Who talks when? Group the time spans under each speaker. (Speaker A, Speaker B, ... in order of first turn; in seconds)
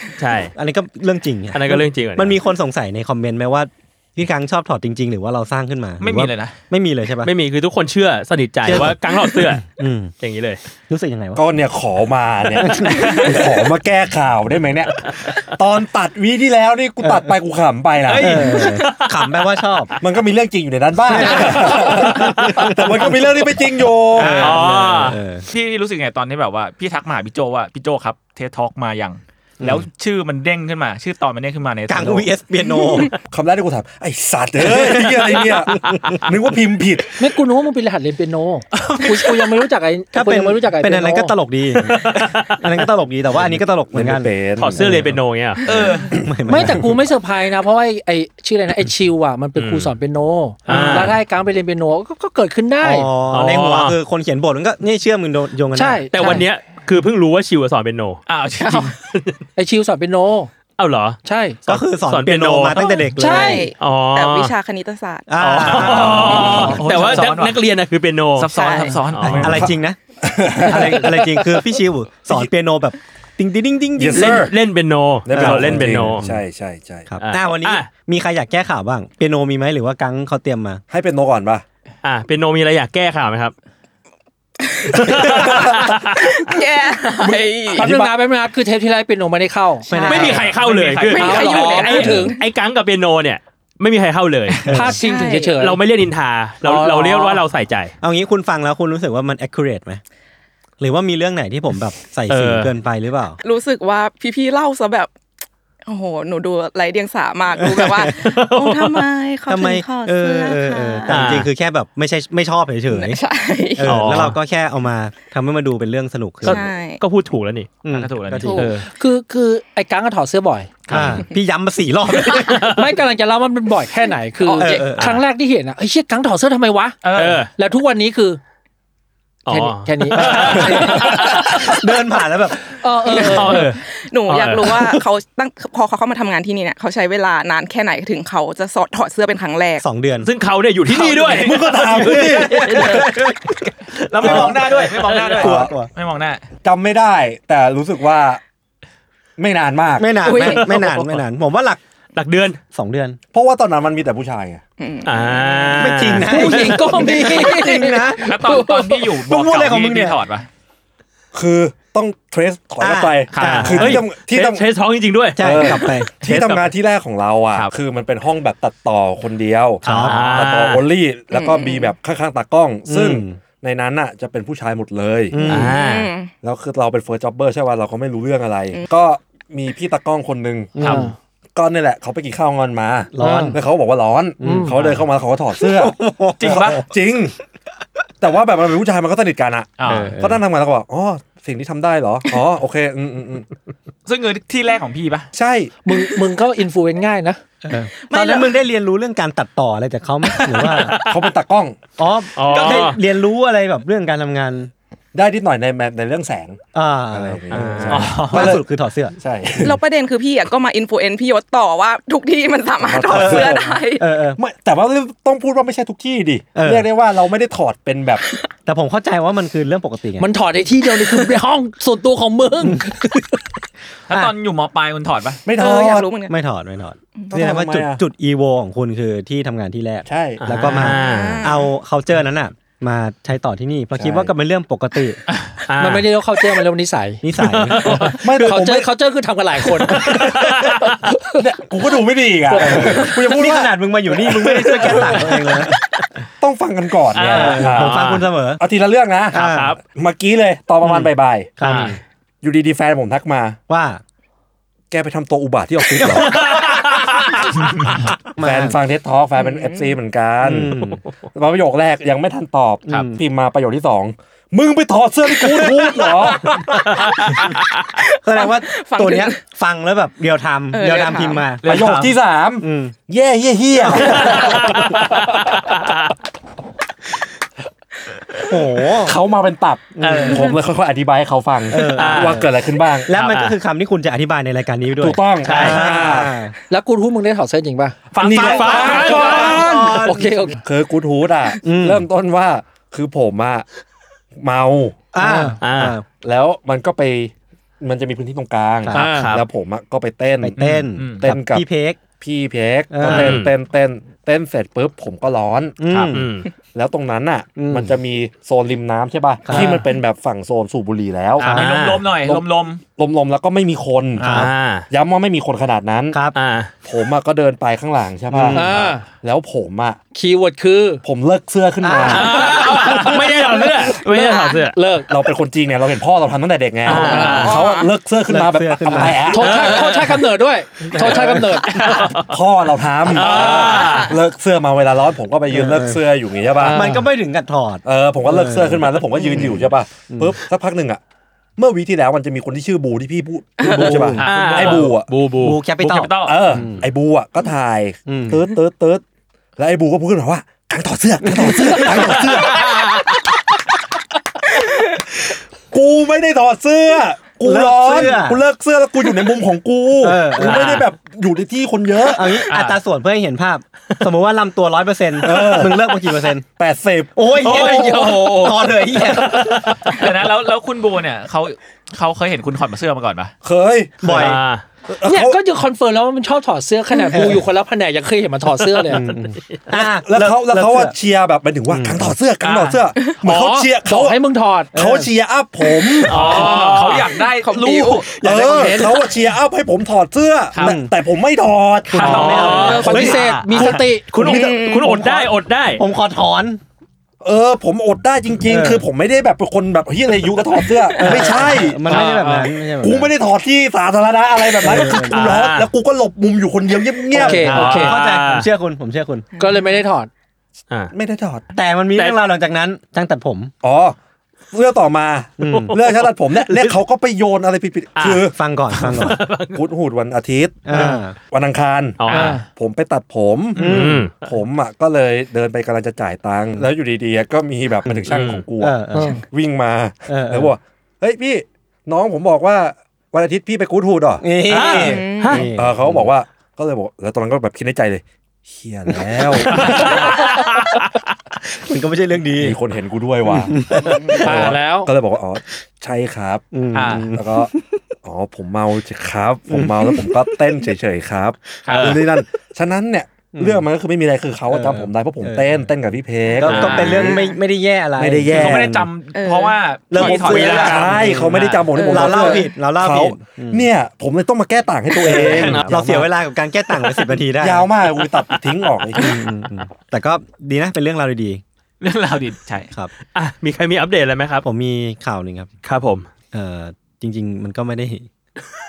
Speaker A: 0.2-0.5, 1.5-2.4, 7.2-9.6, 10.2-10.6, 18.4-19.2, 22.1-22.6, 24.2-25.2, 41.8-42.6, 44.6-45.6, 49.5-49.9, 50.6-51.2, 53.3-54.0, 56.1-58.2, 59.1-59.4, 60.8-61.2, 62.1-62.9, 63.8-64.5, 65.4-69.7, 74.1-76.2, 77.2-77.9, 82.0-83.5, 84.9-86.2, 90.0-94.7, 95.6-97.9, 102.3-102.7, 108.0-109.0, 111.1-111.5, 113.8-114.4, 116.4-117.7, 118.5-118.8, 120.9-121.2, 122.4-122.8, 127.2-127.5, 129.4-131.7, 133.2-135.0, 140.2-143.4, 144.2-144.5, 150.3-151.2, 152.1-152.6, 155.0-156.8, 163.4-165.7, 169.8-170.8, 175.4-176.1, 200.7-201.1, 202.3-203.0, 207.5-208.1, 230.4-231.4, 235.7-236.1, 237.4-238.2, 239.9-240.9, 244.9-245.3, 247.1-248.2, 249.4-249.7, 251.6-252.0, 256.1-257.2, 266.6-267.3, 274.1-276.1, 281.9-282.4, 283.1-283.5, 285.4-285.8, 288.5-289.2, 295.6-296.0, 298.9-299.4, 303.0-303.5, 306.1-306.5, 311.4-312.1, 314.2-314.9, 316.3-316.7, 322.0-324.8, 326.8-327.6, 329.4-330.2, 330.9-332.3, 333.1-334.1, 336.6-337.0, 344.2-345.6, 367.4-370.0, 374.1-374.6, 378.6-379.7, 386.1-387.1, 392.0-395.8, 404.9-405.7, 407.4-408.5, 415.5-415.7, 416.4-416.8, 418.0-418.2, 418.8-419.6, 422.0-422.4, 423.6-424.2, 428.1-428.4, 434.5-435.5, 439.5-440.8, 451.7-452.0, 456.5-457.0, 459.9-461.6, 465.0-466.1, 473.1-474.4, 475.6-476.1
Speaker B: 0.6-7.3, 8.6-9.0, 9.6-10.1, 10.9-11.4, 12.5-13.7, 17.0-17.3, 18.2-19.9, 21.0-23.4, 24.1-25.4, 29.6-29.9, 31.9-33.1, 34.6-36.3, 40.1-45.2, 46.1-47.0, 50.8-51.0, 52.8-56.0, 61.7-63.6, 65.3-66.8, 68.5-70.0, 70.5-74.5, 75.3-76.4, 77.1-80.8, 89.9-90.5, 94.6-95.0, 98.0-100.0, 100.8-103.4, 107.7-108.0, 109.5-113.2, 113.8-116.6, 117.8-118.8, 120.9-122.7, 124.5-125.2, 130.2-132.6, 139.8-140.3, 141.9-143.5, 144.2-145.9, 150.0-151.8, 152.7-153.2, 155.8-158.4, 159.2-160.2, 162.8-164.0, 165.3-166.1, 169.8-170.5, 172.8-173.4, 175.3-175.8, 180.8-181.1, 183.1-183.6, 184.4-185.0, 185.6-186.8, 189.9-190.4, 197.6-201.0, 202.0-204.7, 206.7-209.2, 213.1-214.4, 216.5-216.9, 218.7-220.3, 222.6-223.2, 226.3-235.2, 237.2-238.1, 242.6-245.7, 247.2-248.6, 249.3-249.8, 250.8-252.0, 253.7-254.0, 258.4-258.8, 260.4-261.0, 262.9-263.2, 268.2-272.9, 273.8-274.8, 278.4-279.2, 279.9-280.5, 281.7-282.5, 283.0-286.5, 288.7-290.4, 291.6-292.1, 295.1-296.0, 300.4-302.0, 302.9-303.5, 305.8-306.3, 307.6-307.9, 309.4-309.8, 314.2-314.5, 318.3-318.8, 321.8-322.6, 328.3-329.4, 335.5-336.0, 336.6-340.4, 343.6-344.2, 345.4-346.9, 348.1-348.5, 351.2-352.2, 357.4-358.4, 360.0-360.9, 362.1-366.4, 367.1-369.8, 374.0-374.4, 377.1-377.4, 378.9-380.9, 381.7-382.1, 384.7-385.1, 388.3-388.8, 390.6-390.9, 391.9-393.8, 394.7-396.6, 398.4-398.8, 401.0-403.1, 404.6-405.4, 407.1-409.3, 411.5-413.5, 415.4-415.8, 418.3-419.2, 420.6-421.2, 423.6-424.1, 427.9-429.2, 430.1-430.5, 434.2-436.1, 438.9-440.5, 441.5-442.6, 443.2-444.5, 446.5-447.5, 449.5-450.4, 453.3-453.6, 454.5-455.6, 456.3-458.9, 459.9-463.7, 464.9-467.7, 468.9-471.4, 474.4-475.5, 476.3-478.1
Speaker C: 6.0-6.5, 12.9-13.3, 18.0-18.7, 24.2-24.4, 25.4-32.3, 38.8-39.3, 45.6-46.1, 58.3-58.9, 65.6-67.6, 68.4-69.7, 90.1-92.0, 96.6-97.4, 117.9-118.6, 127.0-127.4, 141.2-141.5, 144.0-146.4, 158.2-160.5, 163.3-163.7, 166.2-166.7, 180.8-181.1, 186.4-186.8, 189.8-190.1, 194.1-195.3, 200.2-200.8, 202.4-202.9, 207.9-208.6, 224.1-225.4, 271.6-272.1, 280.0-280.4, 288.1-289.8, 301.0-301.2, 305.9-306.2, 311.5-312.8, 322.3-324.6, 344.2-344.9, 345.8-346.6, 362.5-362.8, 369.9-373.3, 382.4-382.8, 386.1-388.7, 392.0-393.8, 423.6-423.8, 446.7-447.2, 451.6-452.0, 456.4-457.0, 458.3-461.6, 471.8-472.7
Speaker D: 11.3-18.6, 20.0-24.6, 33.3-37.3, 43.4-44.8, 70.2-71.4, 74.0-74.5, 75.2-77.1, 80.9-81.6, 85.1-85.8, 87.2-88.1, 141.2-143.0, 145.2-145.7, 146.6-148.4, 149.4-150.3, 153.3-154.6, 161.3-164.7, 165.4-175.4, 176.4-181.0, 181.6-187.4, 188.2-193.5, 195.3-195.7, 200.9-201.8, 205.1-206.6, 207.1-208.6, 209.2-209.8, 212.8-213.8, 214.4-218.2, 225.4-226.1, 227.3-228.0, 230.1-230.9, 233.9-234.3, 238.1-238.9, 240.1-240.3, 241.4-245.7, 246.4-248.0, 248.6-251.5, 252.4-253.6, 254.9-266.9, 271.6-274.9, 279.0-283.1, 285.0-286.4, 288.2-293.6, 294.4-295.0, 296.2-300.7, 301.2-301.6, 302.2-305.8, 306.7-311.6, 313.0-316.2, 316.8-320.0, 321.0-323.2, 325.1-329.7, 332.2-337.0, 337.8-341.0, 341.6-345.1, 346.2-349.0, 349.6-353.0, 355.7-362.4, 365.2-365.9, 366.6-368.2, 373.4-374.4, 374.9-375.4, 379.7-384.2, 384.7-386.1, 388.1-392.8, 394.2-394.6, 397.2-407.7, 410.9-411.5, 413.6-414.0, 414.5-418.3, 419.5-440.2, 442.4-446.4, 447.0-447.5, 448.0-457.2, 458.0-458.8, 460.0-465.9, 467.3-469.2
Speaker E: 32.9-33.1, 58.6-58.9, 62.8-65.7, 84.7-87.9, 89.9-90.5, 91.0-92.5, 94.9-95.6, 103.4-105.1, 105.8-111.3, 112.9-114.2, 116.5-117.0, 133.3-139.8, 150.2-150.7, 154.8-155.9, 171.3-171.9, 175.6-176.3, 198.0-198.6, 209.6-214.0, 225.5-226.3, 230.8-231.7, 259.4-259.9, 267.9-269.4, 270.7-271.5, 327.2-327.9, 387.2-389.1, 394.2-395.0, 409.4-409.7, 434.7-435.4, 459.1-459.6, 461.8-462.3
Speaker F: 37.2-41.3, 46.5-53.1, 55.7-56.4, 59.5-60.5, 61.2-61.6, 63.1-63.7, 87.7-89.9, 91.2-92.3, 94.7-95.8, 118.5-120.7, 122.6-127.0, 127.5-128.4, 129.5-131.3, 132.8-133.7, 156.2-159.1, 180.8-181.1, 183.2-183.6, 184.4-184.7, 195.8-197.4, 220.2-223.1, 235.8-237.2, 237.9-240.3, 241.0-241.4, 242.6-243.0, 286.7-288.0, 288.6-289.4, 290.0-290.6, 295.2-295.6, 298.9-299.3, 318.5-319.0, 320.1-321.0, 324.7-325.1, 327.1-327.5, 329.3-331.9, 333.4-334.0, 375.0-379.0, 383.2-384.7, 386.1-386.8, 392.0-394.1, 401.9-402.5, 407.1-408.0, 409.4-410.1, 422.1-422.4, 428.9-429.2, 444.2-444.9